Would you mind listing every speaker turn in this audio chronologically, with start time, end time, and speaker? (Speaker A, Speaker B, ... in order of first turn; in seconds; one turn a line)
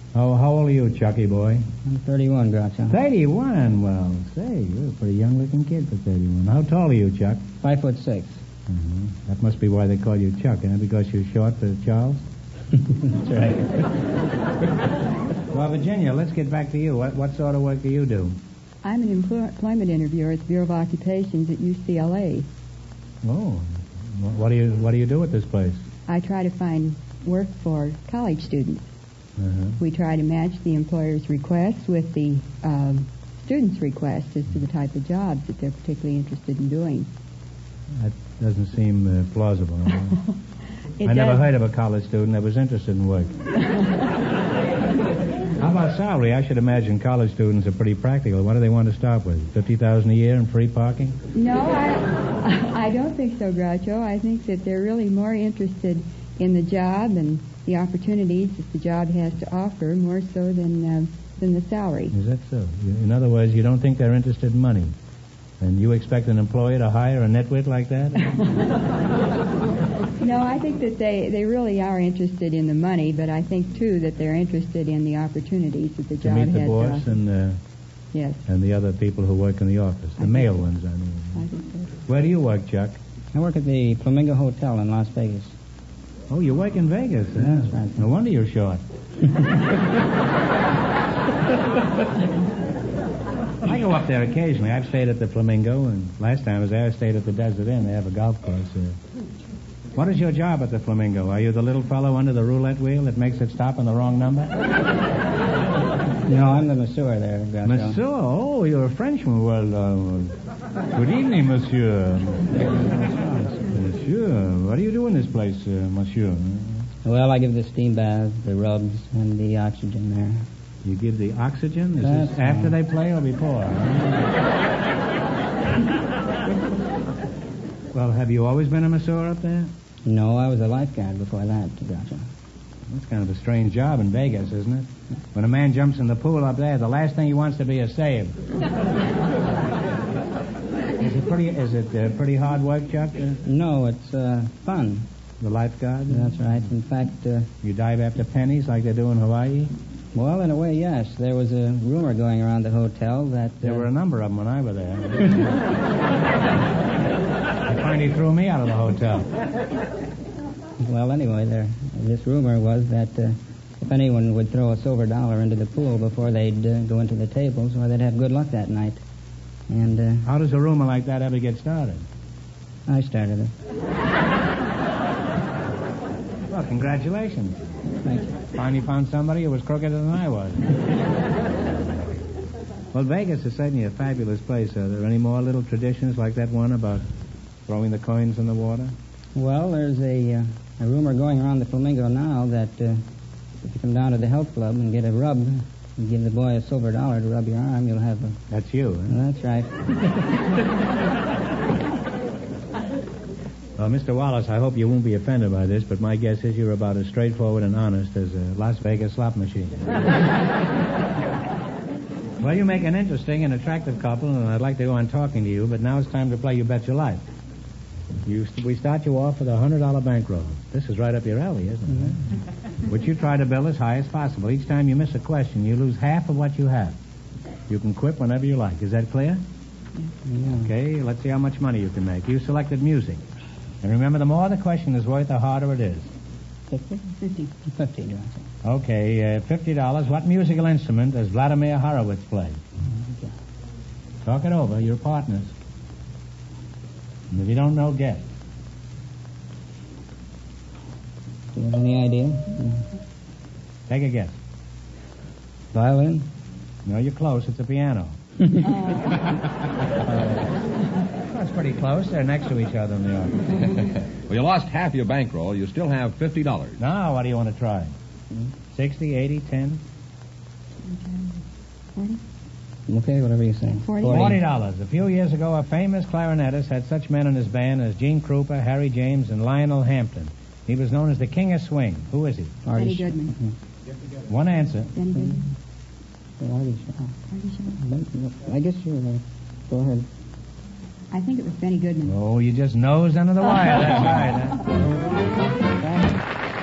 Speaker A: 0.1-1.7
Speaker B: 1.8-3.0
Speaker A: 2.9-7.5
Speaker B: 7.6-8.4
Speaker A: 8.7-12.2
Speaker B: 13.2-13.6
Speaker A: 15.5-18.4
Speaker C: 18.8-22.5
Speaker A: 23.2-25.8
Speaker C: 26.1-28.9
Speaker A: 29.4-29.8
Speaker C: 29.8-37.1
Speaker A: 37.9-40.2
Speaker C: 41.0-41.5
Speaker A: 41.0-43.4
Speaker A: 45.6-51.2
Speaker C: 51.3-62.1
Speaker A: 62.1-64.9
Speaker A: 65.6-68.3
Speaker C: 70.2-77.2
Speaker A: 76.2-77.6
Speaker C: 78.1-78.4
Speaker A: 78.5-81.4
Speaker C: 80.2-80.6
Speaker C: 81.3-82.0
Speaker A: 82.1-83.0
Speaker B: 83.3-85.5
Speaker A: 86.3-88.8
Speaker B: 87.4-88.0
Speaker A: 93.6-99.0
Speaker A: 99.9-104.5
Speaker B: 106.2-108.0
Speaker A: 107.6-110.3
Speaker A: 110.9-112.6
Speaker B: 112.6-113.7
Speaker A: 113.7-116.9
Speaker B: 117.0-120.5
Speaker A: 120.8-124.2
Speaker B: 122.0-122.7
Speaker A: 127.9-129.7
Speaker B: 130.1-132.3
Speaker A: 132.9-138.4
Speaker A: 141.0-143.4
Speaker B: 143.4-145.1
Speaker A: 145.4-146.7
Speaker B: 146.1-147.5
Speaker A: 147.6-149.7
Speaker B: 150.1-153.9
Speaker A: 153.6-155.5
Speaker A: 157.6-159.3
Speaker B: 160.8-169.0
Speaker B: 169.7-170.3
Speaker A: 170.2-172.0
Speaker B: 172.9-173.5
Speaker A: 176.5-177.6
Speaker B: 178.0-178.3
Speaker A: 178.5-180.7
Speaker A: 182.9-187.1
Speaker A: 187.7-188.9
Speaker B: 189.3-193.0
Speaker B: 193.6-198.4
Speaker A: 198.5-199.2
Speaker B: 199.1-200.0
Speaker A: 203.8-210.0
Speaker A: 212.4-217.2
Speaker A: 218.2-222.2
Speaker A: 222.8-227.0
Speaker A: 227.7-229.4
Speaker B: 230.2-230.7
Speaker A: 230.5-233.2
Speaker A: 233.8-236.1
Speaker B: 236.7-238.4
Speaker C: 237.2-237.5
Speaker A: 238.6-242.6
Speaker B: 242.9-243.3
Speaker A: 244.2-245.5
Speaker A: 247.3-248.3
Speaker B: 251.5-252.8
Speaker A: 253.9-254.4
Speaker B: 255.7-256.3
Speaker A: 256.9-258.2
Speaker C: 258.8-259.2
Speaker A: 260.0-260.4
Speaker A: 261.3-263.6
Speaker D: 264.3-266.8
Speaker A: 266.8-267.9
Speaker A: 268.7-269.8
Speaker C: 270.8-271.4
Speaker C: 271.9-272.2
Speaker B: 272.9-274.4
Speaker C: 273.7-274.4
Speaker A: 274.0-282.6
Speaker B: 282.6-283.5
Speaker C: 282.8-283.4
Speaker A: 284.3-284.9
Speaker C: 284.9-285.4
Speaker B: 285.1-285.4
Speaker B: 286.4-287.1
Speaker C: 287.3-287.8
Speaker B: 287.8-290.1
Speaker C: 291.1-292.2
Speaker A: 292.1-294.6
Speaker B: 295.8-296.2